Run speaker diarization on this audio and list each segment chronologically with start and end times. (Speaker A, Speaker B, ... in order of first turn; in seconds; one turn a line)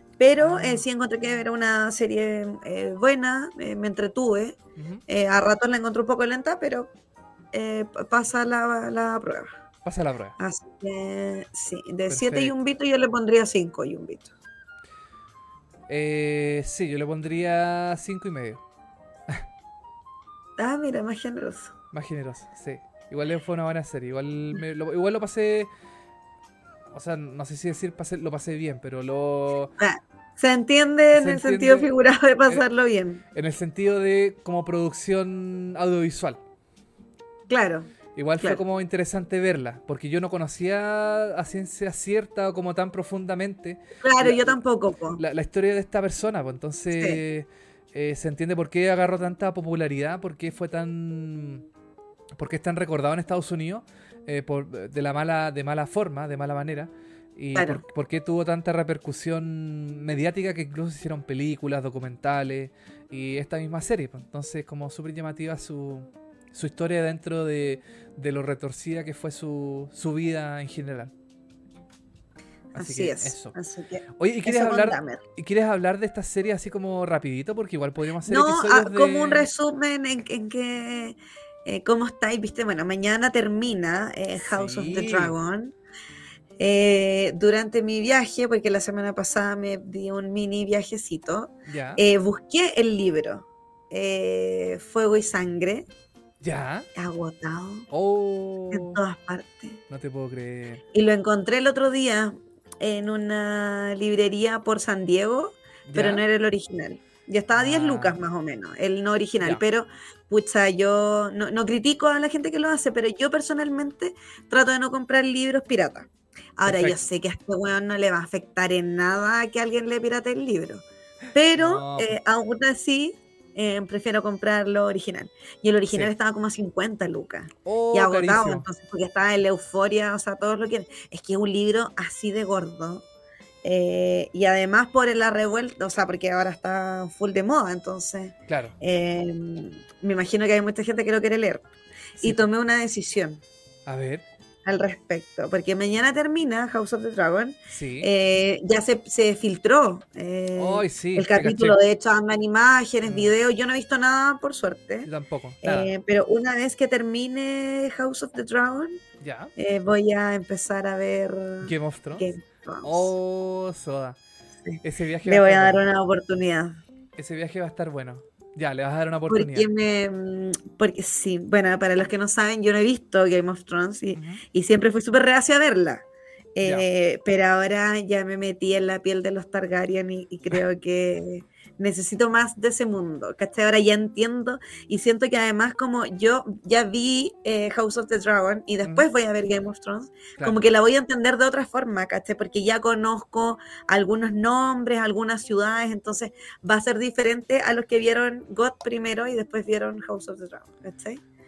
Speaker A: 0.2-6.9
Speaker B: 0.4-0.8
Speaker B: 4.8-5.0
Speaker A: 7.5-9.5
Speaker B: 9.8-10.4
Speaker A: 10.4-14.3
Speaker B: 12.1-12.5
Speaker B: 15.9-18.6
Speaker A: 20.6-21.7
Speaker B: 21.9-25.7
Speaker B: 26.9-29.7
Speaker A: 29.8-33.2
Speaker B: 31.1-31.9
Speaker B: 33.4-36.4
Speaker A: 37.5-37.9
Speaker B: 38.1-44.6
Speaker A: 44.0-45.2
Speaker B: 45.2-51.6
Speaker A: 47.0-47.2
Speaker B: 52.4-71.1
Speaker A: 57.5-57.8
Speaker A: 72.7-75.2
Speaker B: 72.7-73.5
Speaker B: 74.2-79.5
Speaker A: 78.2-85.7
Speaker B: 84.4-85.3
Speaker A: 86.6-95.9
Speaker B: 91.7-92.0
Speaker B: 96.4-96.9
Speaker A: 97.0-97.9
Speaker B: 97.9-99.0
Speaker A: 98.7-99.8
Speaker B: 99.9-100.8
Speaker A: 100.9-133.0
Speaker B: 105.9-106.2
Speaker B: 107.5-108.2
Speaker B: 116.7-117.0
Speaker B: 121.6-122.1
Speaker B: 127.7-128.7
Speaker A: 133.6-141.7
Speaker B: 138.5-138.8
Speaker A: 142.2-143.4
Speaker B: 142.2-142.5
Speaker B: 143.9-144.2
Speaker A: 144.7-155.1
Speaker B: 147.7-148.1
Speaker B: 150.6-151.8
Speaker B: 153.0-153.3
Speaker B: 155.1-155.9
Speaker A: 155.6-159.0
Speaker B: 159.2-159.5
Speaker A: 159.6-163.1
Speaker B: 161.6-162.3
Speaker B: 162.8-164.2
Speaker A: 164.7-166.8
Speaker B: 164.8-165.9
Speaker B: 167.2-169.7
Speaker A: 169.3-176.0
Speaker B: 174.1-174.4
Speaker A: 176.6-201.2
Speaker B: 176.6-176.9